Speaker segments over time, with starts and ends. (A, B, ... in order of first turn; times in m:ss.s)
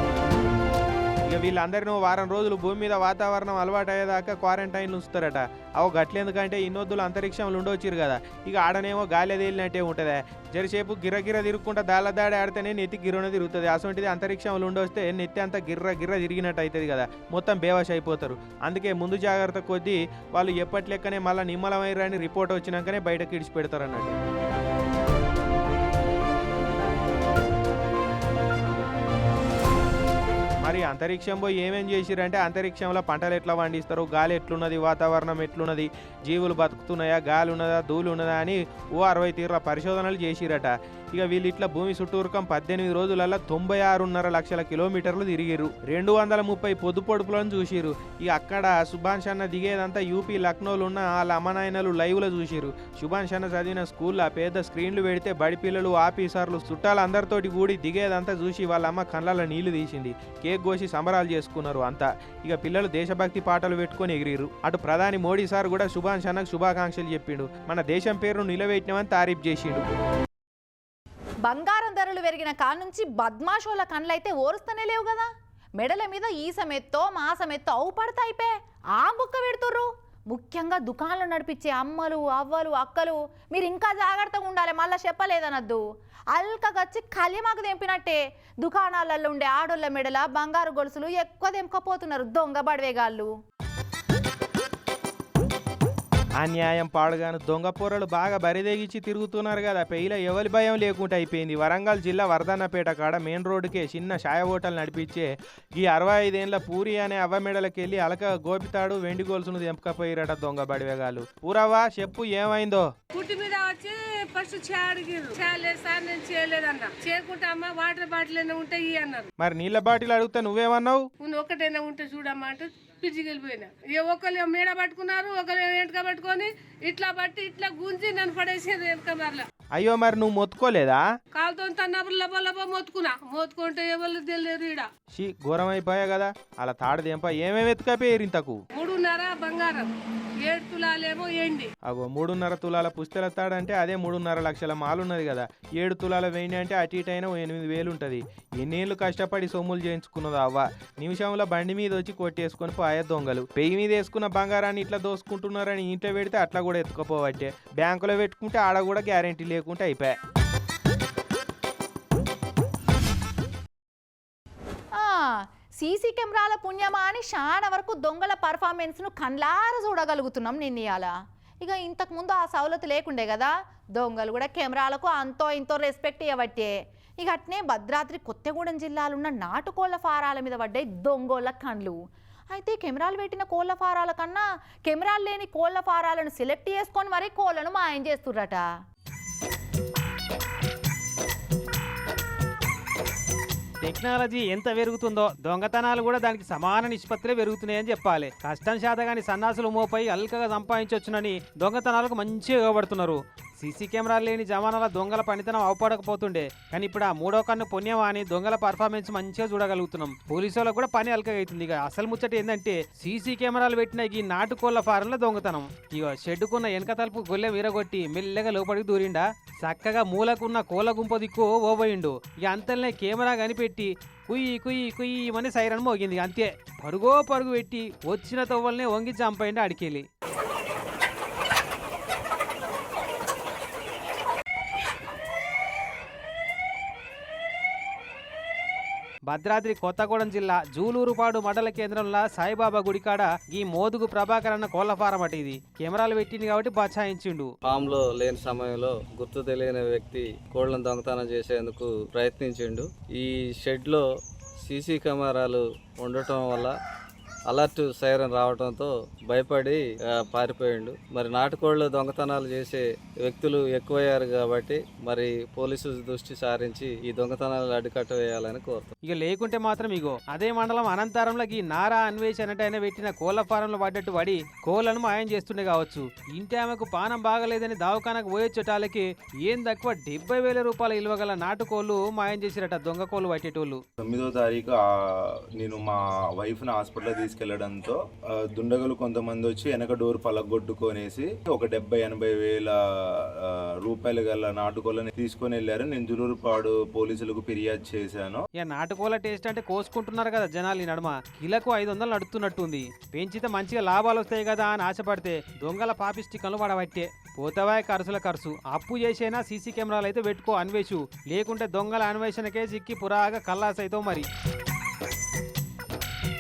0:01.2-0:24.2 A
0:30.6-1:09.8 A
1:11.5-1:15.3 B
1:15.8-1:25.8 B
1:26.3-1:33.3 B
1:36.4-1:52.9 A
1:53.1-1:59.3 C
1:59.4-2:01.1 A
2:01.2-2:09.5 C
2:09.7-2:11.0 A
2:11.3-2:14.9 C
2:15.1-2:18.6 A
2:18.7-2:19.9 C
2:20.4-2:21.7 C
2:21.8-2:40.1 A
2:44.9-3:02.0 B
3:02.5-3:08.6 B
3:13.8-3:50.0 D
3:59.3-4:07.5 D
4:07.6-4:14.0 E
4:14.6-4:16.7 E
4:17.5-4:28.9 E
4:29.1-4:43.8 D
4:44.0-4:44.8 F
4:45.6-4:58.4 F
4:58.6-5:14.3 D